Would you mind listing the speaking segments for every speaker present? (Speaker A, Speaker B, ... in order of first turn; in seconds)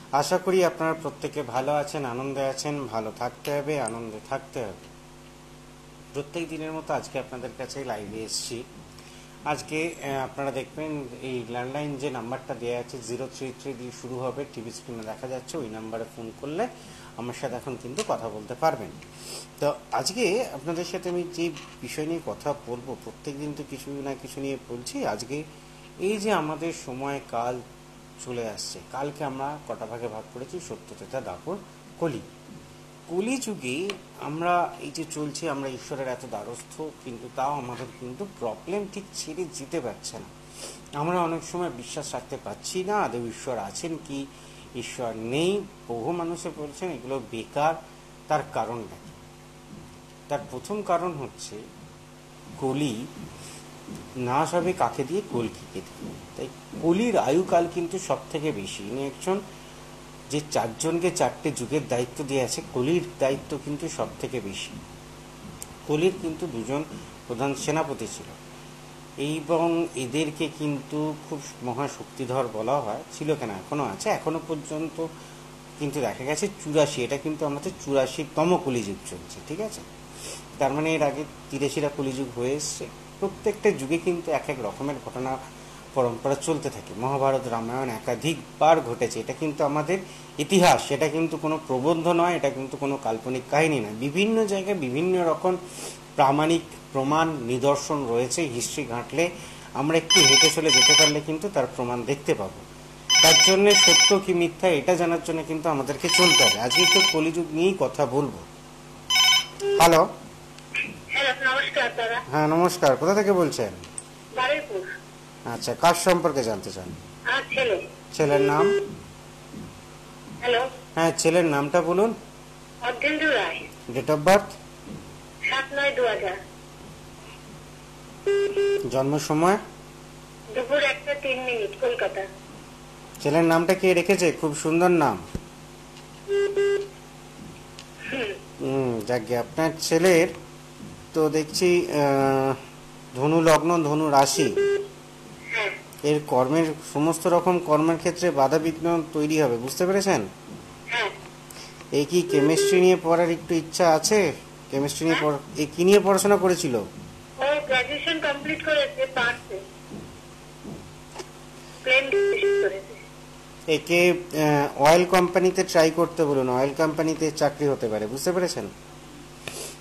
Speaker A: 0.1-4.8, 6.1-8.6, 9.5-19.0, 19.6-25.4, 26.0-27.6, 28.2-32.2, 33.1-40.3, 41.0-44.2, 44.8-47.8, 48.3-49.1, 50.3-51.6, 52.6-53.0, 54.2-59.4, 60.3-64.8, 65.9-68.3, 69.2-75.1, 75.8-79.9, 80.6-85.4, 86.0-95.6, 96.2-99.3, 99.8-102.6, 103.2-108.5, 109.7-110.0, 112.3-113.8, 115.5-116.9, 118.1-118.7, 121.0-122.1, 123.9-124.5, 128.9-129.6, 133.2-135.2, 138.6-140.3, 141.1-142.6, 143.1-144.5, 146.0-150.3, 151.9-156.8, 163.7-168.7
Speaker B: 111.1-112.2, 114.3-114.8, 117.3-117.8, 120.4-120.7, 122.8-123.7, 125.5-126.3, 130.5-132.3, 138.1-138.4, 157.4-159.6, 161.8-163.0